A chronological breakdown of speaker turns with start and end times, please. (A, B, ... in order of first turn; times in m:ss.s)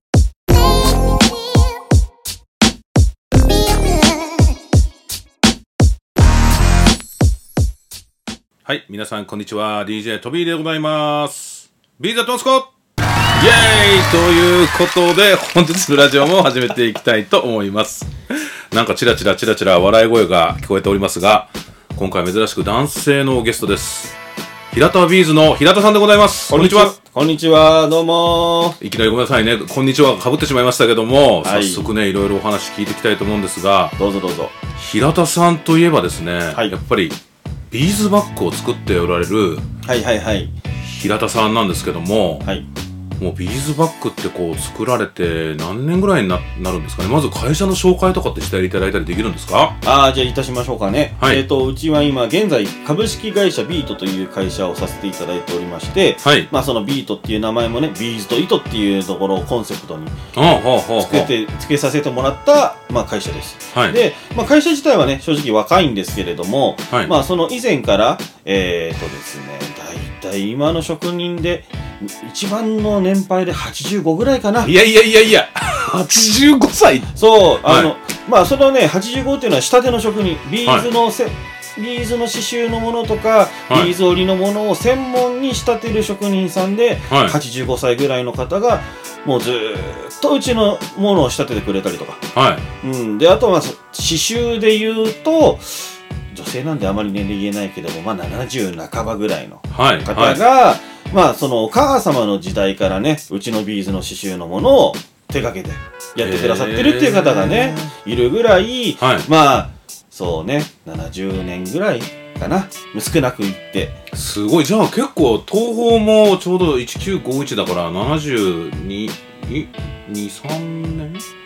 0:08.6-0:12.7 A
0:13.4-0:18.1 A
0:18.7-0:24.2 A
0:24.7-0:26.9 A
0:26.5-0:28.8 B
0:28.8-0:34.0 A
0:31.4-0:31.9 B
0:34.0-0:34.6 B
0:34.8-0:37.2 A
0:37.7-0:39.6 A
0:39.8-0:40.6 B
0:40.8-0:42.5 A
0:43.2-0:49.8 A
0:49.8-1:00.3 B
0:56.2-0:56.5 A
1:00.3-1:01.3 A
1:01.0-1:14.7 B
1:03.7-1:04.0 A
1:14.6-1:17.1 A
1:17.2-1:32.2 B
1:17.6-1:17.9 A
1:27.1-1:27.4 A
1:32.3-1:32.7 A
1:32.8-1:54.0 B
1:39.7-1:40.4 A
1:46.2-1:47.9 A
1:49.0-1:49.3 A
1:54.1-2:01.2 A